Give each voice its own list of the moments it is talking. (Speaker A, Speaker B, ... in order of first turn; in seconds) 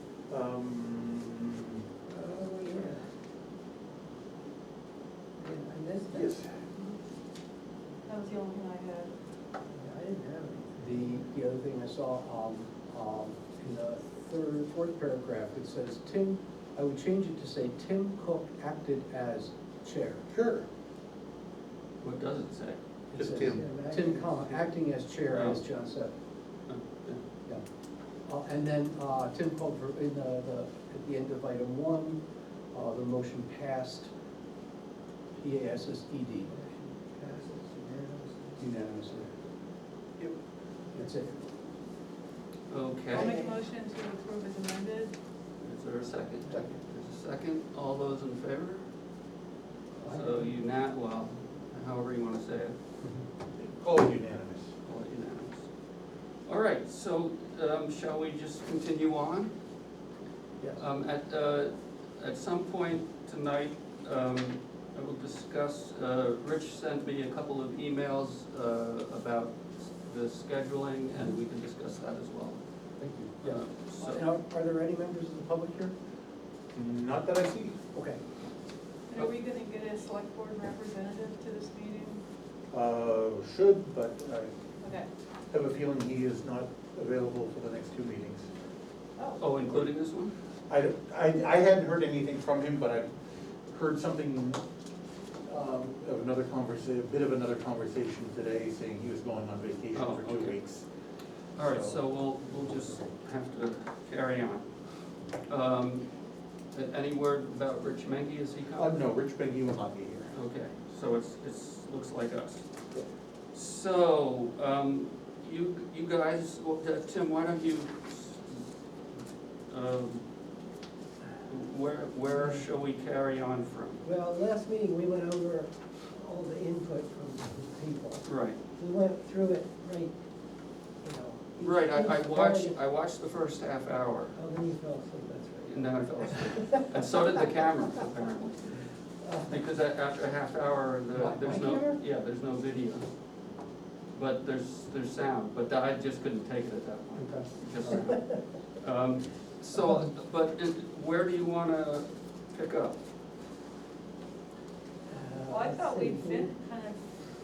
Speaker A: 0.3-1.5, 6.1-6.5, 20.3-20.7, 23.1-23.7, 53.5-54.7, 76.8-77.8, 82.7-84.5, 85.5-88.5, 90.7-93.1, 93.7-94.6, 95.5-100.9, 101.6-102.0, 108.8-110.3
Speaker B: 2.1-3.0, 5.4-6.5, 9.7-11.2, 23.3-24.7, 36.5-39.3, 43.1-43.5, 50.1-50.5, 124.0-128.2, 128.8-130.1, 131.0-132.8, 134.4-136.6, 139.2-139.6, 155.1-156.5
Speaker C: 8.1-9.1, 43.1-45.1, 79.1-82.2, 84.8-85.1, 89.2-89.5, 155.5-157.0
Speaker D: 10.8-20.3, 23.1-26.1, 28.3-32.2, 32.7-34.1, 35.4-36.5, 38.6-39.3, 40.9-41.3, 73.0-75.9, 77.9-78.2, 141.1-141.9, 147.2-148.0
Speaker E: 22.0-22.8, 25.3-25.6, 26.7-27.2, 42.7-43.3, 45.6-48.8, 50.0-52.8, 54.8-55.6, 56.5-59.5, 60.8-72.6, 73.4-74.3, 89.4-90.3, 99.9-100.6, 101.5-104.7, 105.5-106.1, 106.7-109.0, 110.3-112.7, 113.5-118.6, 119.7-120.2, 121.5-124.0, 128.2-128.6, 131.6-134.3, 135.6-138.9, 139.4-143.1, 144.1-153.0